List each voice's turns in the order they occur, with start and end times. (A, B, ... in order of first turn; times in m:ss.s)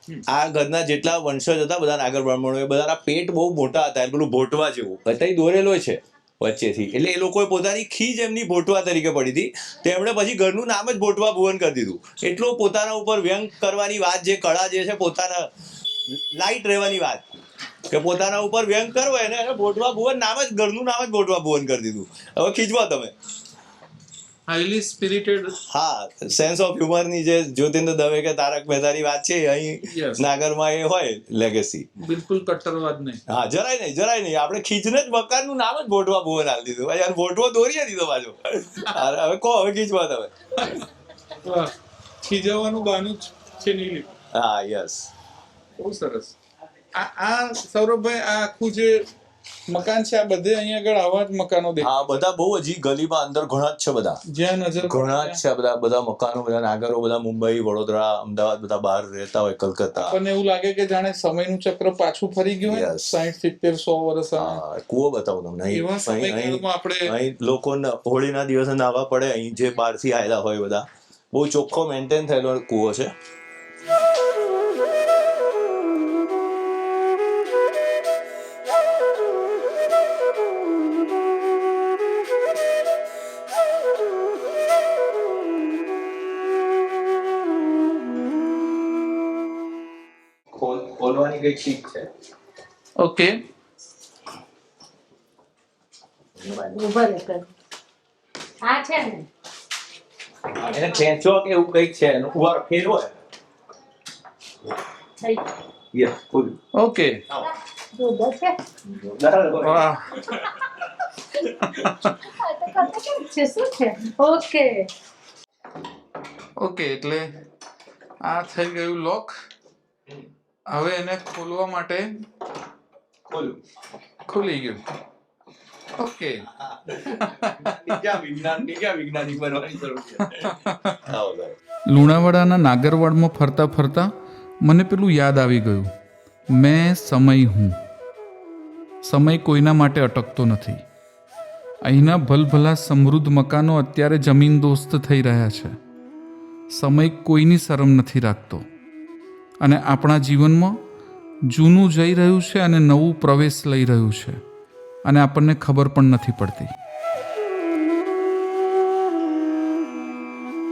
0:00.3-0:15.5 A
0:16.1-0:17.3 A
0:17.9-0:23.2 A
0:24.5-0:25.6 B
0:25.6-0:31.9 A
0:29.9-0:30.2 B
0:32.0-0:33.2 B
0:33.3-0:40.9 A
0:41.4-0:44.1 B
0:44.3-0:45.1 A
0:45.8-0:46.3 B
0:46.9-0:49.1 B
0:49.7-0:52.0 B
0:51.8-0:54.2 A
0:54.3-0:55.4 B
0:54.8-1:00.2 A
1:00.1-1:04.6 B
1:02.6-1:03.2 A
1:04.4-1:13.1 A
1:05.7-1:07.1 B
1:30.5-1:32.1 A
1:33.0-1:33.4 B
1:36.4-1:36.8 A
1:36.7-1:37.5 C
1:38.6-1:39.3 C
1:40.6-1:43.2 A
1:45.9-1:46.6 A
1:46.8-1:47.2 B
1:47.5-1:48.6 C
1:48.9-1:50.4 A
1:49.6-1:50.2 B
1:52.1-1:54.9 C
1:56.6-1:57.3 B
1:58.3-1:59.3 B
2:00.7-2:02.1 B
2:03.3-2:03.6 A
2:04.3-2:04.8 B
2:06.0-2:06.5 B
2:06.5-2:11.6 A
2:07.2-2:07.6 B
2:10.5-2:11.0 B
2:11.9-2:15.9 B
2:16.5-2:17.8 B
2:19.0-2:20.8 B
2:21.8-2:25.8 B
2:26.7-2:28.7 B
2:29.6-2:30.8 B
2:31.5-2:34.4 B
2:35.0-2:36.7 B